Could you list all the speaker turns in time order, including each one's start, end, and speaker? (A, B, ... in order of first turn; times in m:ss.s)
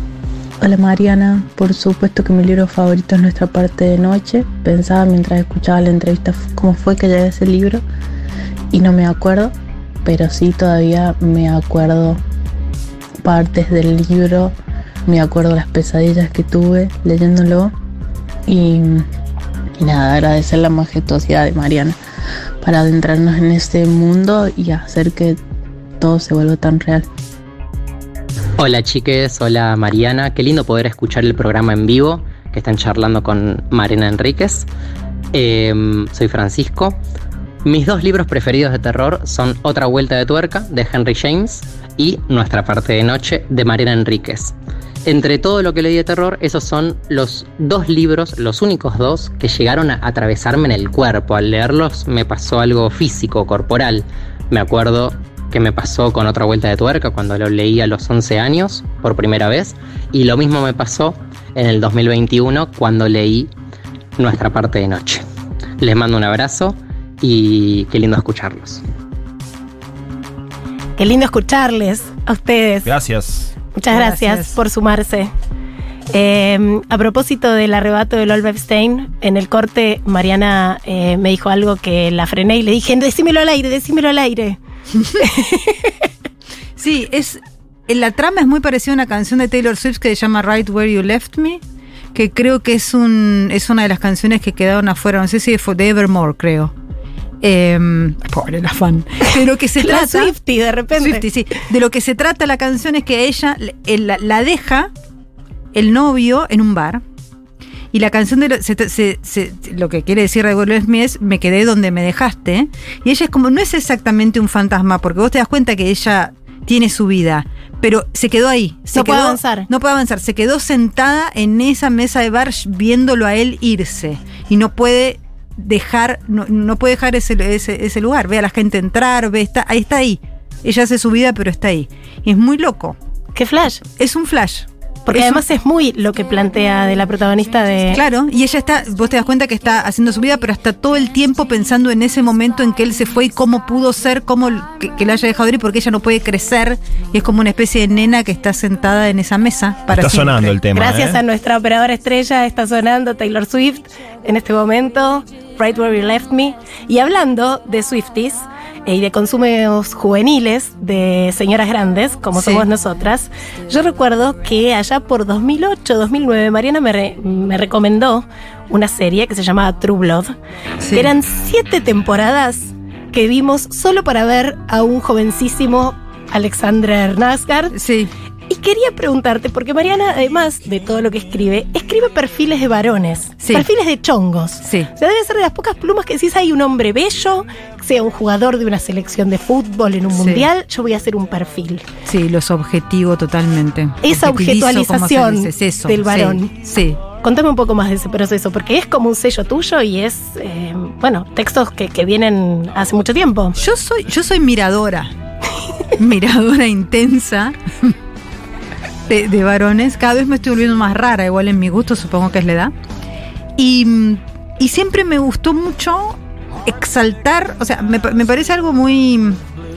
0:00.6-0:07.8 A
0:08.7-0:12.2 A
0:13.2-0:14.6 A
0:15.1-0:17.8 A
0:18.5-0:19.1 A
0:19.8-0:22.0 A
0:22.6-0:25.4 A
0:26.0-0:27.1 A
0:28.6-0:34.7 B
0:35.3-0:37.0 B
0:37.6-0:44.5 B
0:45.0-1:03.5 B
1:04.2-1:05.2 B
1:05.8-1:08.8 B
1:11.0-1:12.9 C
1:12.8-1:13.5 D
1:13.7-1:15.3 C
1:13.9-1:14.6 E
1:16.1-1:24.6 C
1:24.9-1:25.2 E
1:25.2-1:26.1 C
1:26.8-1:31.6 E
1:32.1-1:36.7 E
1:37.4-1:40.4 E
1:39.8-1:41.3 C
1:40.9-1:44.9 E
1:45.7-1:47.0 E
1:47.9-2:13.0 E
1:58.9-1:59.7 C
2:13.4-2:13.8 C
2:14.0-2:15.4 E
2:15.1-2:18.0 C
2:17.9-2:30.6 E
2:29.9-2:31.2 D
2:30.7-2:50.4 C
2:42.3-2:42.7 E
2:50.8-2:51.1 E
2:50.9-2:57.7 C
2:57.7-2:58.1 E
2:58.5-3:11.9 C
3:03.4-3:03.7 E
3:04.6-3:04.9 E
3:10.1-3:10.5 E
3:12.1-3:17.0 E
3:14.0-3:16.5 C
3:17.1-3:23.6 C
3:23.6-3:25.1 E
3:26.0-3:28.0 E
3:29.1-3:32.7 E
3:33.6-3:39.4 E